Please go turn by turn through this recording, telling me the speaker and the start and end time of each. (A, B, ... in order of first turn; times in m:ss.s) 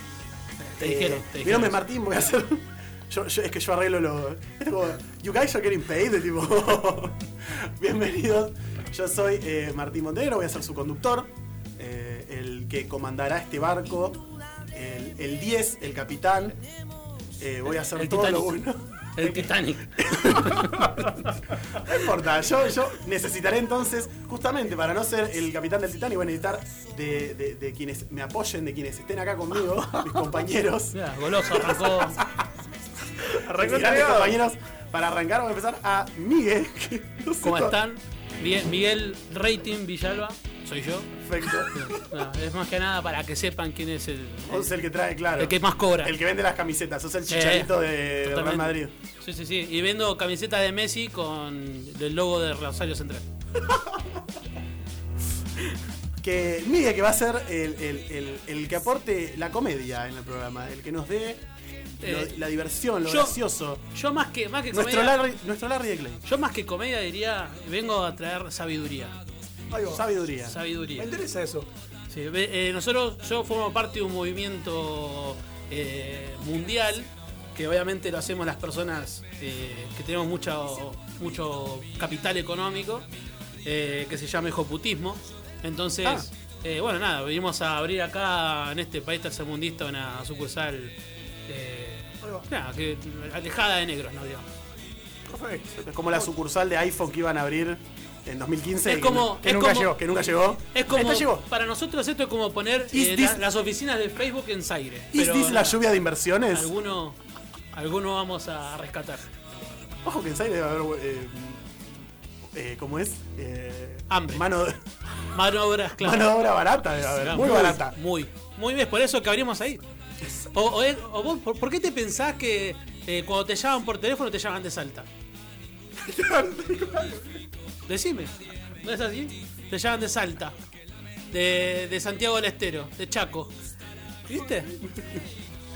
0:00.6-0:01.8 A
0:00.8-0:16.6 B
0:17.4-0:21.1 B
0:17.8-0:18.6 A
0:19.2-0:21.2 A
0:21.6-0:32.3 B
0:30.9-0:32.2 A
0:33.3-0:34.4 C
0:33.4-0:37.8 B
0:37.4-0:44.7 A
0:41.2-0:42.1 B
0:44.5-0:48.9 B
0:45.4-0:46.2 A
0:47.3-0:53.2 A
0:56.2-1:01.4 B
1:02.0-1:03.9 B
1:02.0-1:02.4 A
1:03.0-1:05.2 A
1:04.7-1:06.2 B
1:06.2-1:09.1 A
1:09.7-1:10.1 C
1:09.9-1:10.6 B
1:10.4-1:11.1 A
1:11.0-1:11.7 C
1:12.1-1:23.1 A
1:23.6-1:34.4 A
1:32.2-1:32.5 C
1:35.3-1:35.9 C
1:35.8-1:40.7 B
1:38.8-1:40.0 A
1:39.4-1:40.0 C
1:40.7-1:45.8 A
1:40.9-1:41.4 C
1:42.9-1:43.4 B
1:45.1-1:46.7 B
1:46.5-1:47.2 A
1:47.7-1:49.3 A
1:50.0-1:51.7 B
1:52.5-1:54.8 B
1:54.1-1:54.5 A
1:55.3-1:56.3 A
1:56.0-1:58.0 B
1:57.2-1:59.8 A
2:00.5-2:05.1 A
2:06.0-2:07.2 C
2:07.9-2:10.5 A
2:11.3-2:13.5 A
2:14.3-2:14.7 A